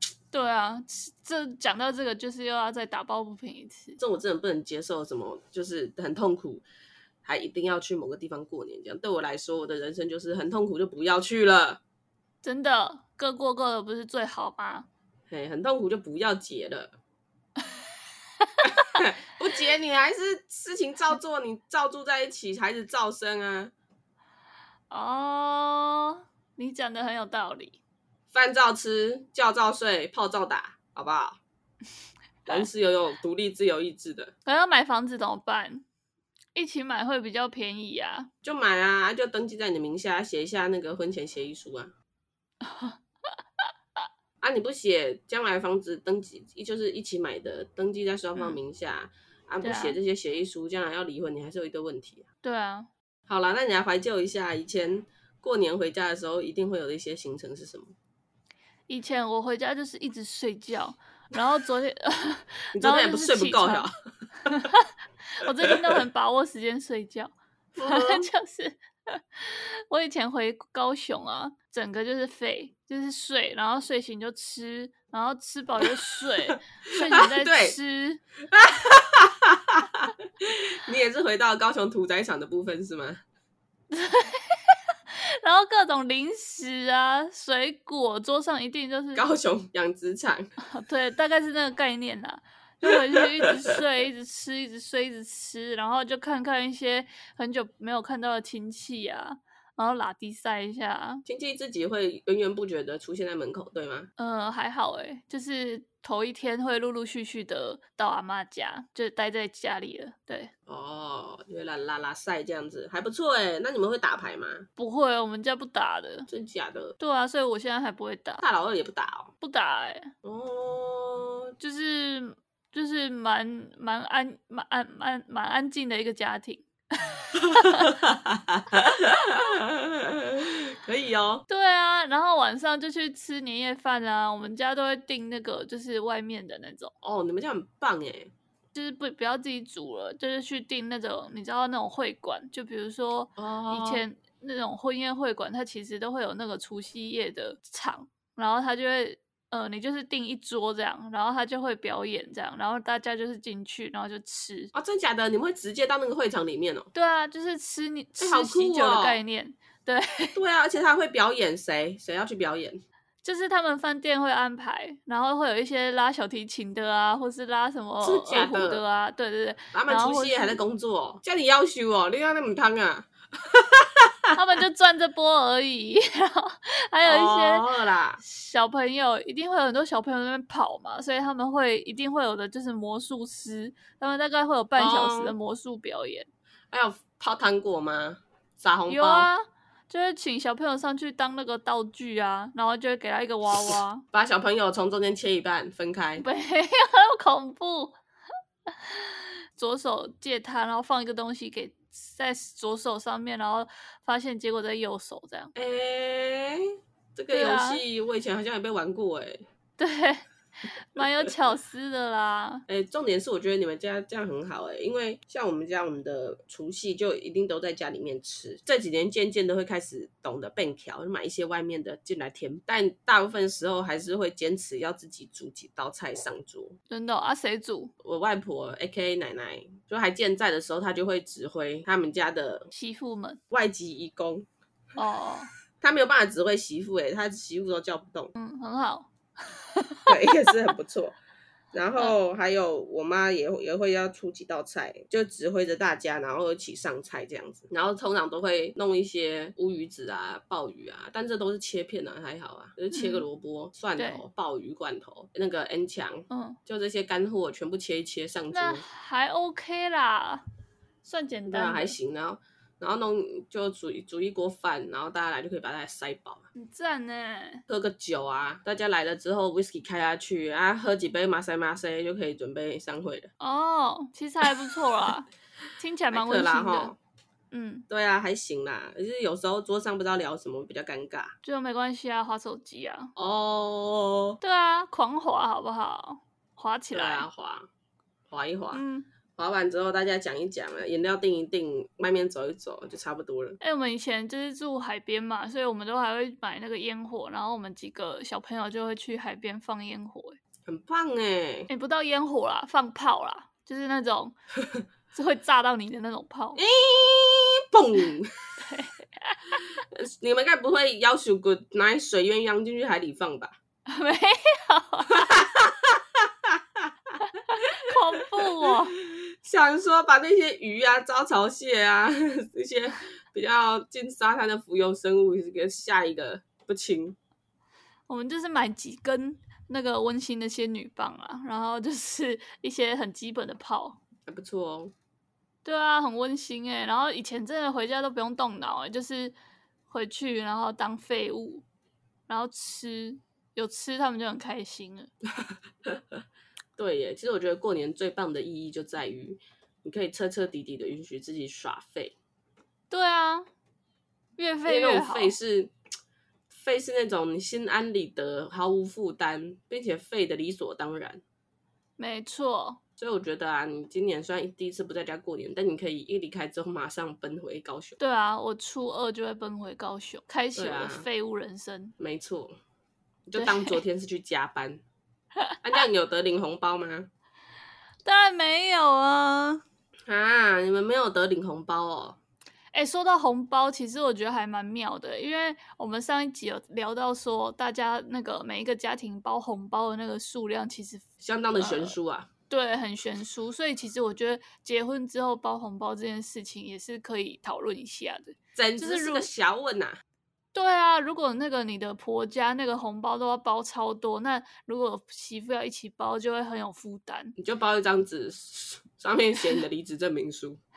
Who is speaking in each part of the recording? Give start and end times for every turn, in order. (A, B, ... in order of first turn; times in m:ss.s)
0:00.3-0:04.0 A
0:04.0-0:06.7 B
0:07.2-0:11.8 B
0:12.4-0:14.9 A
0:15.3-0:17.0 B
0:18.6-0:23.7 B
0:24.9-0:27.8 A
0:28.3-0:31.4 B
0:32.5-0:34.3 B
0:34.4-0:35.8 A
0:36.6-0:38.3 A
0:38.4-0:41.9 B
0:42.6-0:43.0 A
0:44.4-0:52.2 B
0:49.6-0:50.0 A
0:52.4-0:52.9 A
0:53.3-0:57.9 B
0:58.9-1:03.9 A
1:02.8-1:03.9 B
1:04.5-1:04.8 A
1:05.4-1:18.2 A
1:07.8-1:08.3 B
1:16.9-1:17.8 B
1:18.5-1:23.2 B
1:23.9-1:29.3 A
1:29.2-1:30.5 B
1:30.6-1:41.2 A
1:41.3-1:44.1 B
1:44.2-1:50.5 A
1:50.7-1:54.7 B
1:54.8-1:56.3 A
1:56.3-1:57.0 B
1:57.0-1:58.4 A
1:58.4-1:59.3 B
1:59.4-2:00.1 A
2:00.2-2:01.6 B
2:01.6-2:06.7 A
2:07.4-2:11.4 B
2:11.5-2:16.9 A
2:17.0-2:18.3 B
2:18.7-2:34.7 A
2:23.4-2:24.0 B
2:34.7-2:36.9 B
2:36.9-2:40.4 A
2:38.2-2:39.2 B
2:40.4-2:42.8 B
2:43.2-2:50.6 A
2:48.0-2:48.8 B
2:49.7-2:54.1 B
2:54.4-2:57.7 A
2:57.0-2:58.2 B
2:58.2-3:06.3 A
3:04.8-3:05.4 B
3:06.7-3:09.3 B
3:08.9-3:14.0 A
3:14.1-3:16.2 B
3:16.2-3:18.0 A
3:18.8-3:25.5 A
3:25.6-3:26.6 B
3:27.2-3:29.5 B
3:27.3-3:27.8 A
3:29.8-3:30.2 A
3:30.9-3:32.6 A
3:32.7-3:46.8 B
3:46.9-3:47.9 A
3:48.0-3:52.7 B
3:52.7-3:53.4 A
3:53.5-3:54.5 B
3:55.0-3:55.5 A
3:55.8-3:58.3 B
3:58.4-4:00.3 A
4:00.1-4:01.2 B
4:01.7-4:18.8 B
4:12.9-4:13.2 A
4:14.0-4:14.2 A
4:16.3-4:16.6 A
4:18.5-4:20.4 A
4:21.0-4:21.9 A
4:21.5-4:26.4 B
4:26.6-4:27.6 A
4:27.7-4:33.3 B
4:33.4-4:36.9 A
4:36.1-4:37.0 B
4:37.5-4:37.9 A
4:37.9-4:41.3 B
4:41.4-4:43.1 A
4:43.2-4:44.4 B
4:44.4-4:47.3 A
4:46.9-4:47.7 B
4:48.3-4:48.8 B
4:48.7-4:49.1 A
4:49.4-4:53.6 B
4:53.6-5:00.4 A
5:00.7-5:01.7 B
5:01.7-5:04.4 A
5:05.1-5:06.6 A
5:06.6-5:08.3 B
5:08.6-5:09.5 A
5:09.9-5:13.5 B
5:13.9-5:15.5 A
5:15.4-5:16.8 B
5:17.8-5:19.0 A
5:19.1-5:27.2 B
5:28.1-5:34.0 A
5:34.3-5:34.9 B
5:35.6-5:39.4 A
5:39.9-5:41.6 A
5:42.3-5:45.1 A
5:46.8-5:52.2 B
5:52.9-5:53.5 A
5:54.4-5:55.3 A
5:54.7-5:55.7 B
5:56.5-6:01.2 B
6:02.0-6:02.8 A
6:03.0-6:08.0 B
6:08.0-6:11.9 A
6:10.6-6:11.1 B
6:12.0-6:12.6 B
6:13.3-6:14.8 B
6:13.4-6:13.8 A
6:15.6-6:17.1 B
6:18.0-6:19.6 A
6:20.1-6:22.2 B
6:22.7-6:32.0 A
6:31.2-6:32.3 B
6:32.5-6:39.3 A
6:38.6-6:40.0 B
6:40.5-6:47.4 A
6:47.4-6:50.6 B